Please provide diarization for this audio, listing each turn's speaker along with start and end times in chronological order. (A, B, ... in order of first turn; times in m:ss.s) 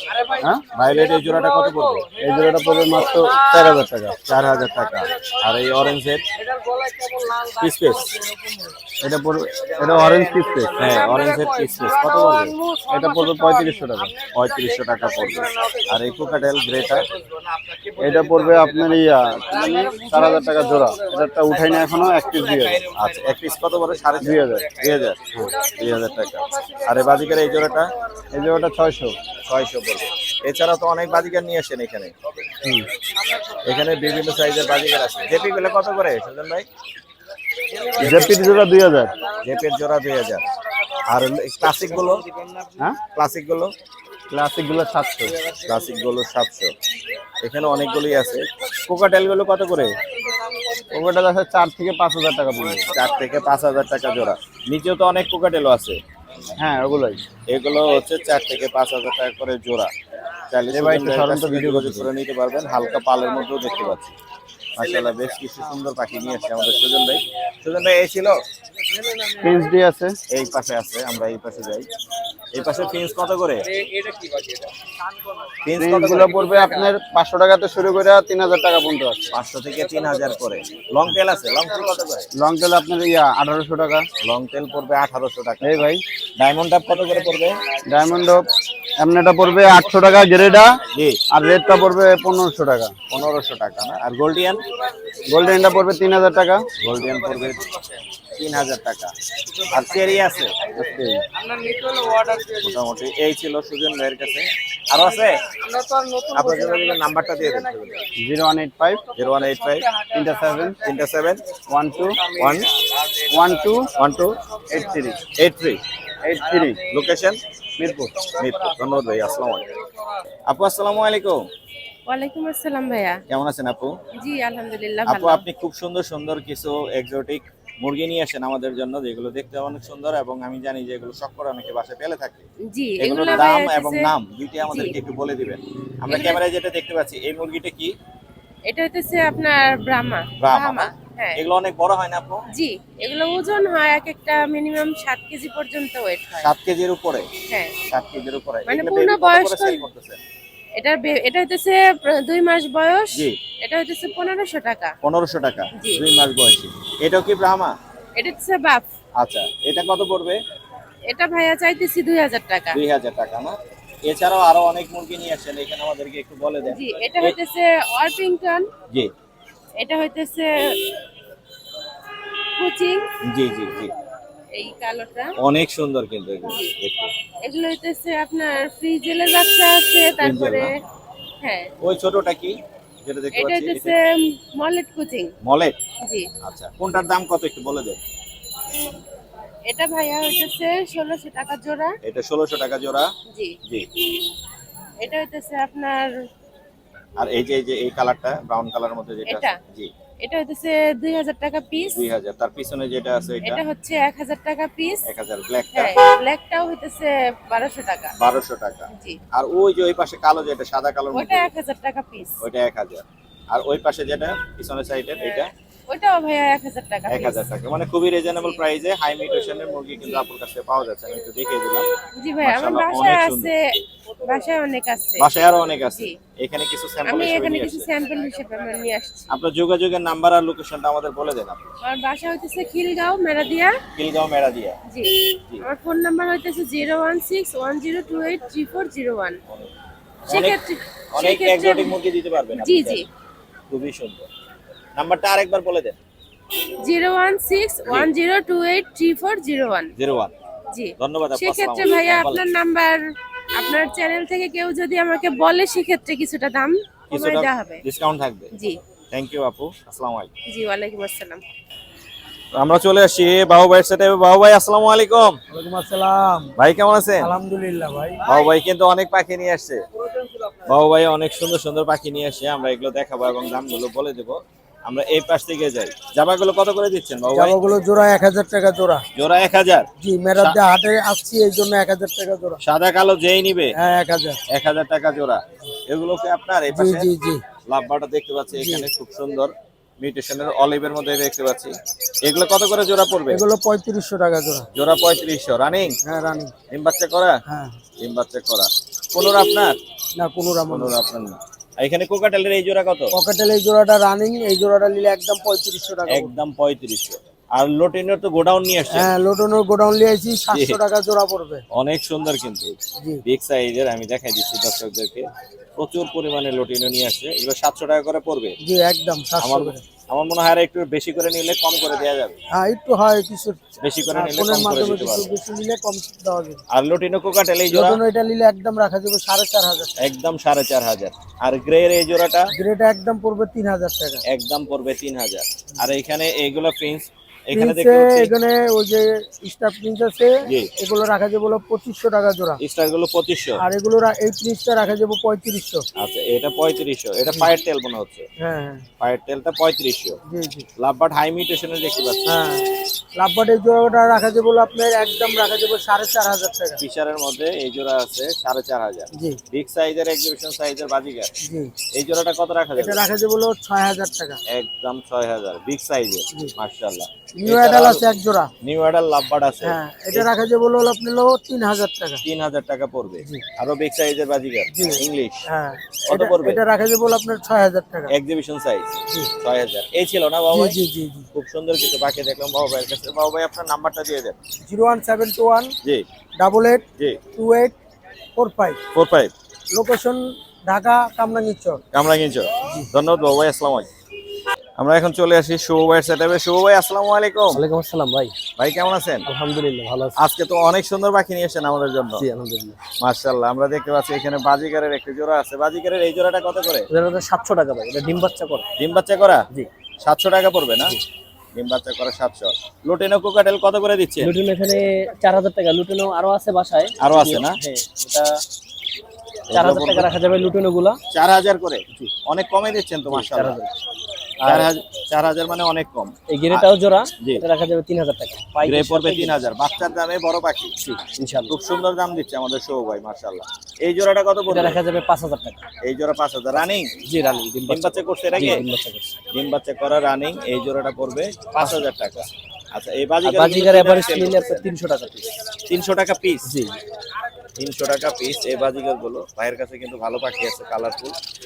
0:00.8-0:02.1 A
0:02.2-0:04.2 B
0:04.3-0:06.2 A
0:07.6-0:08.1 A
0:09.0-0:10.9 B
0:10.8-0:12.6 A
0:12.9-0:14.1 B
0:14.3-0:17.1 A
0:18.0-0:22.8 B
0:23.0-0:27.9 A
0:24.2-0:24.7 B
0:28.3-0:29.1 B
0:29.4-0:32.1 A
0:33.6-0:36.7 A
0:38.0-0:39.1 B
0:38.0-0:38.4 A
0:39.4-0:40.5 A
0:41.1-0:42.2 A
0:43.1-0:43.7 A
0:44.3-0:45.3 B
0:45.6-0:46.7 A
0:47.4-0:49.9 A
0:50.9-0:52.9 B
0:52.9-0:56.0 A
0:56.6-0:57.2 B
0:57.5-0:59.9 A
1:00.5-1:04.1 A
1:00.7-1:02.1 B
1:04.8-1:08.4 A
1:09.4-1:10.2 B
1:10.3-1:11.9 A
1:12.5-1:13.6 A
1:15.6-1:16.7 A
1:15.8-1:19.3 B
1:19.3-1:22.3 A
1:22.3-1:24.1 B
1:24.2-1:25.8 A
1:25.6-1:26.0 B
1:26.4-1:27.6 A
1:27.9-1:28.4 B
1:29.0-1:30.8 B
1:31.0-1:31.2 A
1:31.3-1:32.9 B
1:33.1-1:34.6 A
1:35.3-1:36.7 B
1:36.8-1:37.6 A
1:38.4-1:39.1 A
1:39.7-1:40.6 A
1:40.7-1:41.2 B
1:42.6-1:45.4 A
1:46.3-1:48.0 A
1:48.2-1:49.0 B
1:49.2-1:49.9 A
1:50.0-1:50.8 B
1:50.8-1:51.4 A
1:51.7-1:52.4 B
1:52.4-1:52.7 A
1:53.3-1:53.9 B
1:54.0-1:54.3 A
1:54.7-1:55.3 B
1:55.3-1:55.8 A
1:56.2-1:56.8 B
1:56.9-1:57.4 A
1:57.8-1:58.4 B
1:58.4-1:59.7 A
2:00.5-2:01.4 A
2:02.1-2:03.2 C
2:03.3-2:03.9 A
2:04.2-2:05.4 C
2:05.1-2:12.4 A
2:12.7-2:14.1 C
2:13.0-2:18.0 A
2:14.7-2:15.0 C
2:16.1-2:16.4 C
2:18.7-2:21.4 C
2:20.4-2:22.4 A
2:22.5-2:26.5 C
2:26.4-2:27.3 A
2:27.5-2:27.8 C
2:27.9-2:30.2 A
2:28.7-2:29.8 C
2:30.8-2:35.0 C
2:35.0-2:37.7 A
2:35.8-2:36.0 C
2:38.2-2:38.9 C
2:39.2-2:40.4 A
2:41.1-2:42.8 C
2:42.7-2:47.4 A
2:46.7-2:48.7 C
2:49.8-2:50.8 C
2:52.6-2:53.0 C
2:53.2-2:53.9 A
2:54.6-2:55.3 C
2:55.4-2:57.1 A
2:56.5-2:56.7 C
2:57.4-3:00.7 C
3:00.2-3:00.7 A
3:01.4-3:01.7 C
3:01.8-3:04.0 A
3:03.4-3:05.3 C
3:05.4-3:05.8 A
3:06.4-3:08.0 A
3:09.7-3:12.0 C
3:12.0-3:13.1 A
3:13.3-3:13.6 C
3:15.0-3:16.1 C
3:17.2-3:19.9 A
3:19.3-3:19.6 C
3:20.2-3:22.0 C
3:21.9-3:23.6 A
3:23.4-3:25.1 C
3:25.1-3:26.0 A
3:25.7-3:28.1 C
3:28.2-3:31.5 A
3:28.9-3:29.2 C
3:31.1-3:32.4 C
3:32.4-3:35.5 A
3:35.9-3:37.4 C
3:37.1-3:41.9 A
3:38.3-3:38.6 C
3:42.2-3:43.6 C
3:42.4-3:43.5 A
3:44.3-3:45.3 C
3:45.2-3:47.9 A
3:45.9-3:46.1 C
3:47.1-3:49.3 C
3:49.3-3:51.6 A
3:51.9-3:53.8 C
3:54.0-3:54.8 A
3:54.9-3:59.4 C
4:00.3-4:00.6 A
4:00.3-4:02.0 C
4:01.1-4:03.0 A
4:02.6-4:03.0 C
4:03.7-4:04.3 A
4:05.0-4:06.0 A
4:06.8-4:09.9 C
4:10.0-4:10.3 A
4:10.7-4:13.0 C
4:11.0-4:12.4 A
4:13.6-4:17.8 C
4:17.1-4:18.5 A
4:19.1-4:20.3 A
4:20.5-4:21.4 C
4:22.6-4:25.4 A
4:25.5-4:26.5 D
4:26.6-4:27.3 A
4:27.2-4:28.2 D
4:28.3-4:29.8 A
4:30.7-4:37.6 A
4:37.3-4:39.0 D
4:39.2-4:40.6 A
4:40.0-4:42.6 D
4:42.6-4:43.8 A
4:43.8-4:44.4 D
4:44.5-4:47.1 A
4:46.7-4:47.4 D
4:47.7-4:53.4 A
4:48.5-4:48.9 D
4:53.3-4:54.7 D
4:54.7-4:56.0 A
4:56.0-4:56.5 D
4:56.7-4:57.4 A
4:57.5-4:57.7 D
4:58.0-4:59.8 A
5:00.2-5:01.0 D
5:00.7-5:03.2 A
5:03.1-5:06.3 D
5:06.1-5:09.1 A
5:08.9-5:11.6 D
5:10.5-5:10.8 A
5:11.7-5:18.6 A
5:18.6-5:19.8 D
5:19.4-5:22.4 A
5:22.5-5:26.6 D
5:23.8-5:25.3 A
5:26.7-5:28.0 A
5:27.7-5:29.9 D
5:30.0-5:32.5 A
5:32.5-5:34.2 D
5:34.3-5:38.3 A
5:37.5-5:42.6 D
5:40.5-5:40.7 A
5:42.6-5:43.6 A
5:43.6-5:45.8 D
5:46.0-5:48.3 A
5:48.4-5:48.8 D
5:49.0-5:50.2 A
5:50.3-5:50.7 D
5:50.8-5:52.2 A
5:52.3-5:52.6 D
5:53.2-5:56.8 D
5:56.8-6:01.3 A
5:59.1-5:59.4 D
6:01.4-6:01.7 D
6:01.9-6:03.0 A
6:02.8-6:04.4 D
6:04.5-6:08.0 A
6:07.4-6:08.5 D
6:08.6-6:10.3 A
6:09.6-6:12.2 D
6:12.2-6:15.5 A
6:14.7-6:18.1 D
6:16.1-6:16.6 A
6:18.1-6:20.8 A
6:20.5-6:21.3 D
6:21.3-6:24.4 A
6:24.7-6:25.7 D
6:26.4-6:27.8 D
6:28.4-6:28.8 D
6:29.0-6:29.3 A
6:29.7-6:31.8 D
6:31.9-6:33.9 A
6:34.8-6:37.6 A
6:37.5-6:38.3 E
6:38.6-6:39.3 A
6:39.3-6:40.2 E
6:40.2-6:42.2 A
6:42.2-6:42.8 E
6:43.0-6:46.9 A
6:46.9-6:48.7 E
6:48.8-6:49.5 A
6:50.0-6:51.0 A
6:51.6-6:54.3 A
6:54.2-6:58.3 E
6:57.0-6:57.6 A
6:59.5-7:00.1 A
6:59.5-7:01.0 E
7:01.1-7:03.6 A
7:03.1-7:03.7 E
7:04.4-7:04.7 E
7:04.4-7:06.6 A
7:06.3-7:09.4 E
7:07.2-7:07.4 A
7:08.6-7:10.7 A
7:10.8-7:11.6 E
7:11.5-7:14.8 A
7:14.5-7:15.6 E
7:15.8-7:16.9 A
7:16.6-7:19.2 E
7:17.7-7:18.6 A
7:19.3-7:24.6 A
7:23.2-7:25.3 E
7:25.7-7:26.5 A
7:26.4-7:26.8 E
7:27.6-7:31.2 A